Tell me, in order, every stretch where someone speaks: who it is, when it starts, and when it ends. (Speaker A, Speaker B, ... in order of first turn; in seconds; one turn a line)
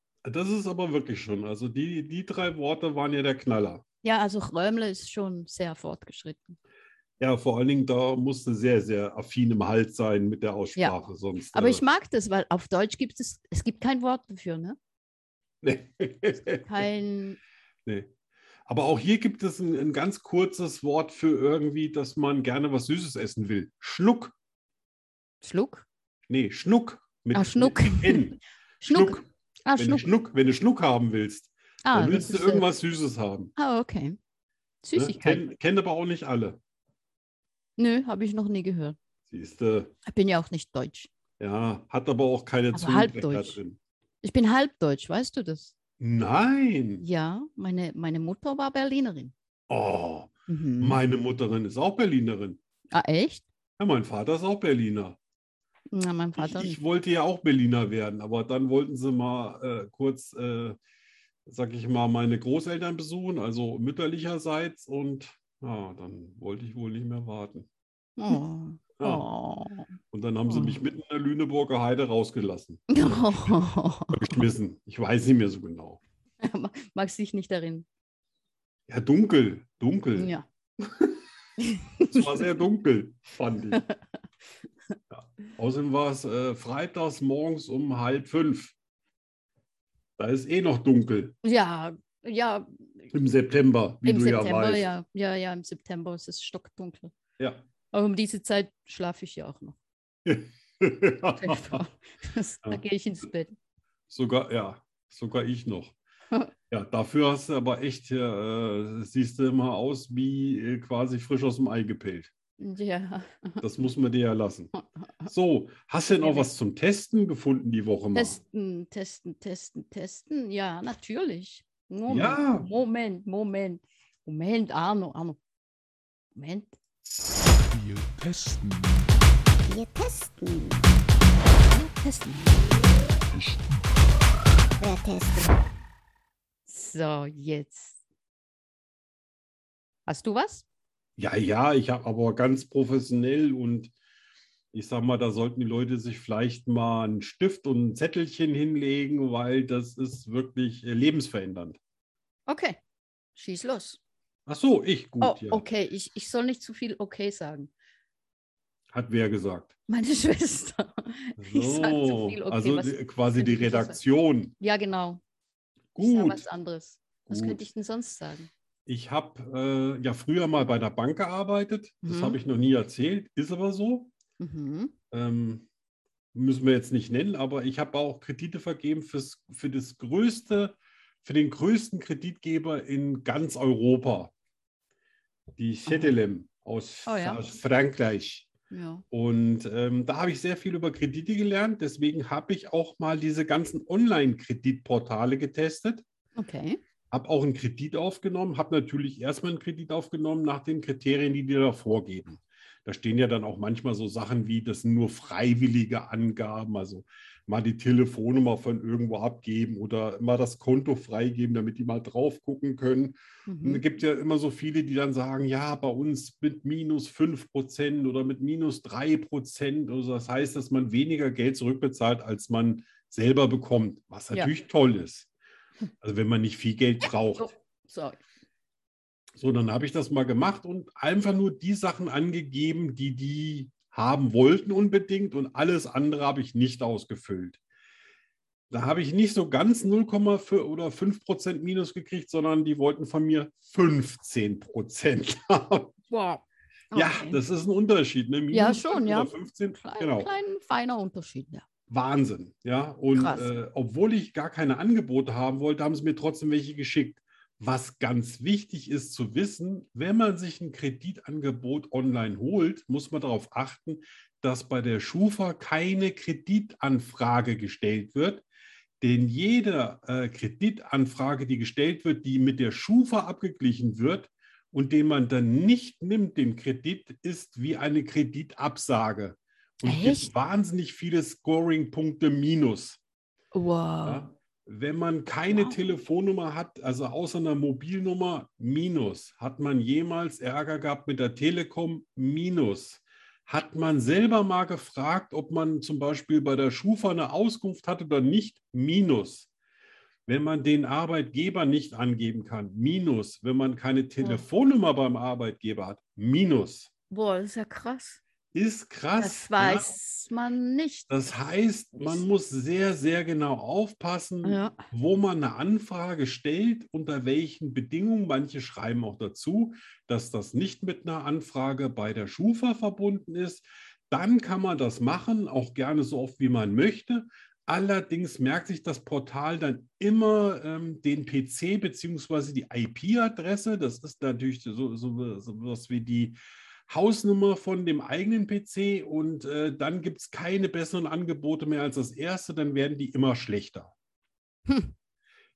Speaker A: 0.2-3.8
Speaker B: 4.0-6.6
Speaker A: 7.2-11.8
Speaker B: 11.5-14.8
Speaker A: 15.6-16.9
Speaker B: 16.4-17.4
Speaker A: 18.6-24.3
Speaker B: 25.4-25.9
Speaker A: 26.3-29.2
Speaker B: 27.3-30.1
Speaker A: 29.8-33.5
Speaker B: 31.8-32.7
Speaker B: 33.6-34.2
Speaker B: 34.8-35.4
Speaker A: 34.9-36.6
Speaker B: 37.8-39.0
Speaker A: 39.3-39.9
Speaker B: 40.0-41.1
Speaker A: 41.4-43.8
Speaker B: 42.7-43.6
Speaker B: 44.2-45.7
Speaker A: 46.0-47.0
Speaker B: 47.0-49.3
Speaker A: 49.7-52.6
Speaker B: 50.5-51.0
Speaker B: 52.9-53.5
Speaker A: 53.8-55.2
Speaker B: 55.9-56.8
Speaker A: 56.4-60.8
Speaker A: 61.5-67.7
Speaker B: 68.2-69.9
Speaker A: 69.0-69.2
Speaker A: 70.1-73.5
Speaker B: 70.5-70.8
Speaker B: 72.9-74.4
Speaker A: 74.1-76.0
Speaker B: 76.4-77.8
Speaker A: 78.9-81.2
Speaker B: 80.2-80.4
Speaker B: 81.6-82.5
Speaker A: 82.1-83.8
Speaker A: 85.1-88.7
Speaker A: 90.2-91.3
Speaker B: 91.4-93.1
Speaker A: 93.1-94.9
Speaker B: 94.0-97.1
Speaker A: 97.4-97.6
Speaker B: 97.9-99.8
Speaker A: 100.2-101.8
Speaker B: 101.3-103.5
Speaker A: 104.1-105.9
Speaker A: 106.7-112.3
Speaker B: 112.6-113.6
Speaker A: 113.6-114.7
Speaker B: 114.7-115.3
Speaker A: 115.2-118.4
Speaker B: 116.2-116.5
Speaker B: 118.1-125.4
Speaker A: 122.1-122.7
Speaker B: 126.3-126.8
Speaker C: 127.7-129.2
Speaker B: 129.7-130.8
Speaker B: 131.7-132.9
Speaker C: 133.3-133.9
Speaker B: 134.8-135.5
Speaker B: 136.7-138.0
Speaker B: 140.1-140.6
Speaker A: 141.2-143.9
Speaker A: 144.7-151.8
Speaker B: 152.5-152.8
Speaker B: 153.3-154.0
Speaker A: 154.4-155.6
Speaker B: 155.2-157.7
Speaker A: 158.9-159.7
Speaker B: 159.9-164.0
Speaker A: 161.4-164.5
Speaker B: 164.6-165.2
Speaker A: 165.9-166.4
Speaker B: 166.0-168.5
Speaker A: 167.3-167.7
Speaker A: 168.8-174.1
Speaker B: 172.0-172.4
Speaker B: 174.4-174.9
Speaker A: 175.1-175.7
Speaker A: 176.3-184.3
Speaker A: 185.6-188.5
Speaker B: 185.9-186.1
Speaker B: 187.1-187.4
Speaker B: 188.7-189.0
Speaker A: 189.1-196.0
Speaker B: 196.3-196.8
Speaker A: 197.1-225.3
Speaker B: 213.5-213.8
Speaker A: 226.0-227.5
Speaker B: 227.0-228.2
Speaker A: 229.4-237.6
Speaker A: 238.7-245.9
Speaker B: 246.1-247.4
Speaker A: 246.9-250.3
Speaker B: 248.5-251.6
Speaker A: 251.9-268.4
Speaker B: 253.1-253.6
Speaker A: 269.0-283.0
Speaker B: 279.8-280.3
Speaker B: 283.5-284.3
Speaker A: 284.0-299.5
Speaker B: 285.5-285.8
Speaker A: 300.3-306.9
Speaker B: 304.2-304.4
Speaker B: 307.1-308.2
Speaker A: 308.5-309.9
Speaker B: 309.2-311.1
Speaker A: 311.1-343.9
Speaker B: 314.4-314.8
Speaker B: 344.7-344.9